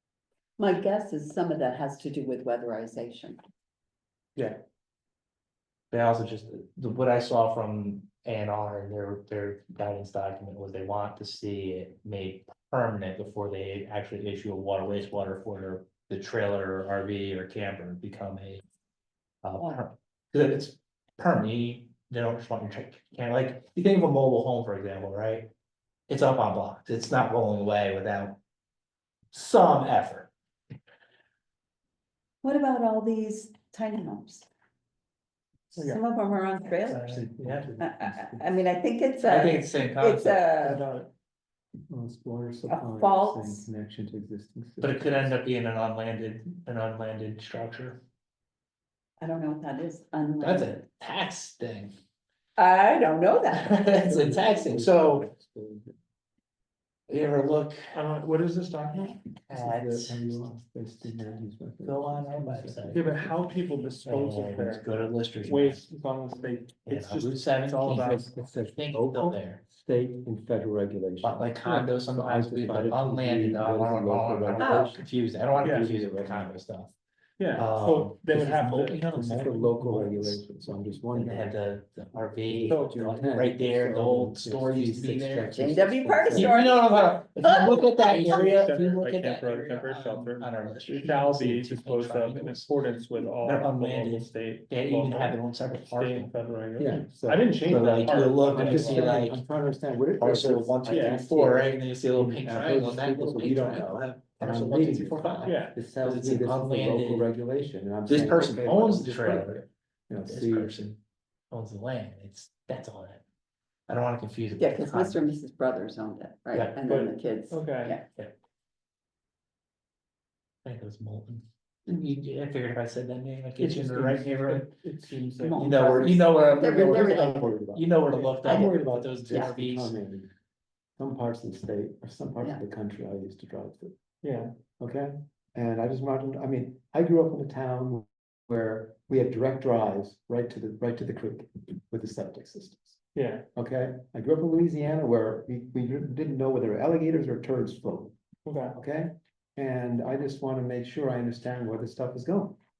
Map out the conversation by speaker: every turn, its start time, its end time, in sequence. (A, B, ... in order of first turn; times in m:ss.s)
0:00.6-0:03.4 A
0:05.9-0:18.6 B
0:19.4-0:25.5 B
0:26.1-0:28.4 B
0:29.3-0:30.3 B
0:32.4-0:34.5 A
0:35.7-0:37.2 A
0:35.8-0:36.0 C
0:36.8-0:37.8 B
0:37.0-0:38.6 D
0:37.8-0:40.8 A
0:39.2-0:40.4 B
0:40.6-0:41.1 C
0:41.9-0:45.3 D
0:42.7-0:43.7 A
0:44.8-0:48.0 B
0:49.2-0:50.8 A
0:50.4-0:51.9 B
0:52.6-0:54.3 A
0:53.5-0:55.3 B
0:54.0-0:56.0 D
0:57.1-0:58.0 B
0:57.9-0:59.2 C
0:59.4-1:00.3 B
0:59.5-1:03.2 D
1:01.8-1:03.1 B
1:02.9-1:08.3 C
1:04.0-1:05.9 B
1:06.8-1:09.6 B
1:07.9-1:15.0 D
1:11.2-1:16.9 B
1:14.6-1:14.9 A
1:15.6-1:16.5 D
1:15.6-1:15.9 C
1:17.4-1:19.0 C
1:17.5-1:20.4 B
1:19.1-1:21.6 D
1:21.1-1:32.7 B
1:22.1-1:26.6 D
1:22.7-1:23.0 C
1:25.5-1:28.2 A
1:28.0-1:39.2 C
1:33.4-1:36.3 B
1:36.8-1:50.8 D
1:37.6-1:39.4 B
1:40.2-1:47.3 B
1:40.8-1:41.2 C
1:45.4-1:45.8 C
1:48.1-1:49.7 B
1:50.2-1:51.0 B
1:51.5-1:53.2 B
1:53.9-1:55.3 B
1:54.6-1:58.0 A
1:56.8-1:58.0 C
2:00.6-2:04.7 B
2:03.6-2:05.7 C
2:05.4-2:07.5 A
2:05.5-2:10.0 B
2:06.5-2:10.3 D
2:08.4-2:08.7 A
2:11.0-2:13.9 D
2:14.2-2:14.5 C
2:14.8-2:23.0 D
2:23.1-2:23.4 C
2:23.6-2:28.1 D
2:28.4-2:28.7 C
2:28.7-2:32.6 D